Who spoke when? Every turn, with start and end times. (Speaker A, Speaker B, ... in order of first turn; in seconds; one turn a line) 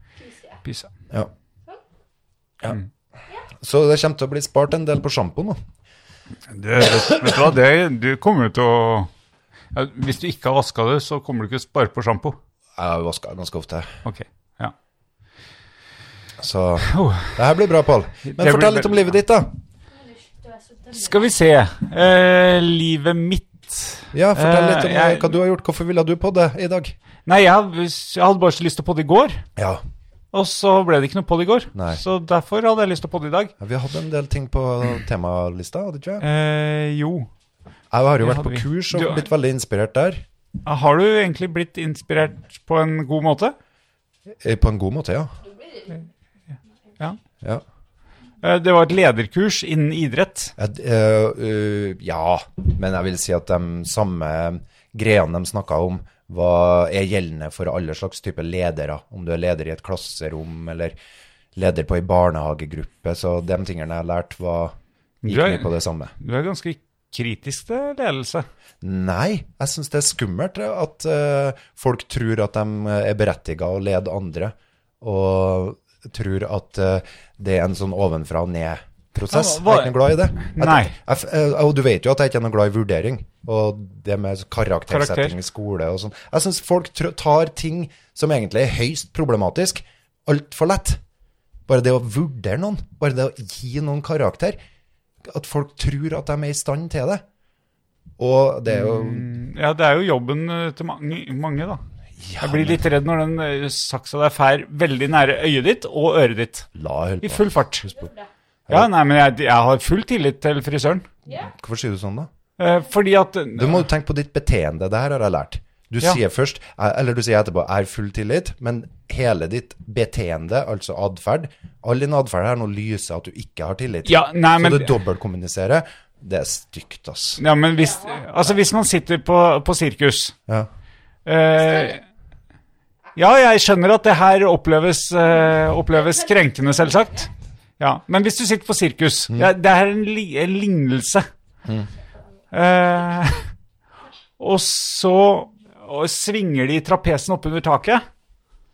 Speaker A: 0.2-0.6
Speaker B: 0.6-0.9
Speaker C: 3.6-5.6
Speaker B: 6.5-9.1
Speaker B: 9.7-12.4
Speaker C: 12.8-13.9
Speaker B: 14.0-14.7
Speaker C: 16.4-19.5
Speaker B: 16.9-17.4
Speaker B: 18.2-19.1
Speaker A: 19.9-21.3
Speaker B: 20.9-25.3
Speaker C: 24.1-26.9
Speaker B: 27.2-29.4
Speaker C: 29.6-29.8
Speaker B: 30.3-33.5
Speaker C: 31.7-32.0
Speaker C: 33.6-36.2
Speaker B: 36.2-37.3
Speaker C: 37.9-40.2
Speaker B: 38.2-39.2
Speaker B: 40.6-43.5
Speaker C: 44.4-45.3
Speaker A: 45.4-46.0
Speaker B: 48.4-50.5
Speaker C: 50.6-60.9
Speaker C: 61.5-66.1
Speaker B: 65.2-68.5
Speaker C: 68.8-91.0
Speaker B: 79.3-80.9
Speaker B: 84.9-85.3
Speaker C: 91.7-94.6
Speaker C: 95.2-97.2
Speaker C: 98.2-99.3
Speaker B: 98.7-101.8
Speaker C: 102.2-102.8
Speaker B: 102.4-106.7
Speaker C: 106.7-107.9
Speaker B: 107.2-107.9
Speaker A: 107.8-108.3
Speaker B: 108.7-111.1
Speaker A: 111.2-111.5
Speaker C: 111.5-112.3
Speaker B: 112.6-113.9
Speaker C: 113.5-127.4
Speaker B: 124.0-124.9
Speaker B: 127.4-130.3
Speaker A: 127.8-128.2
Speaker B: 131.2-132.0
Speaker A: 131.6-131.9
Speaker B: 133.2-141.3
Speaker A: 135.9-137.3
Speaker B: 142.5-143.4
Speaker B: 144.4-148.0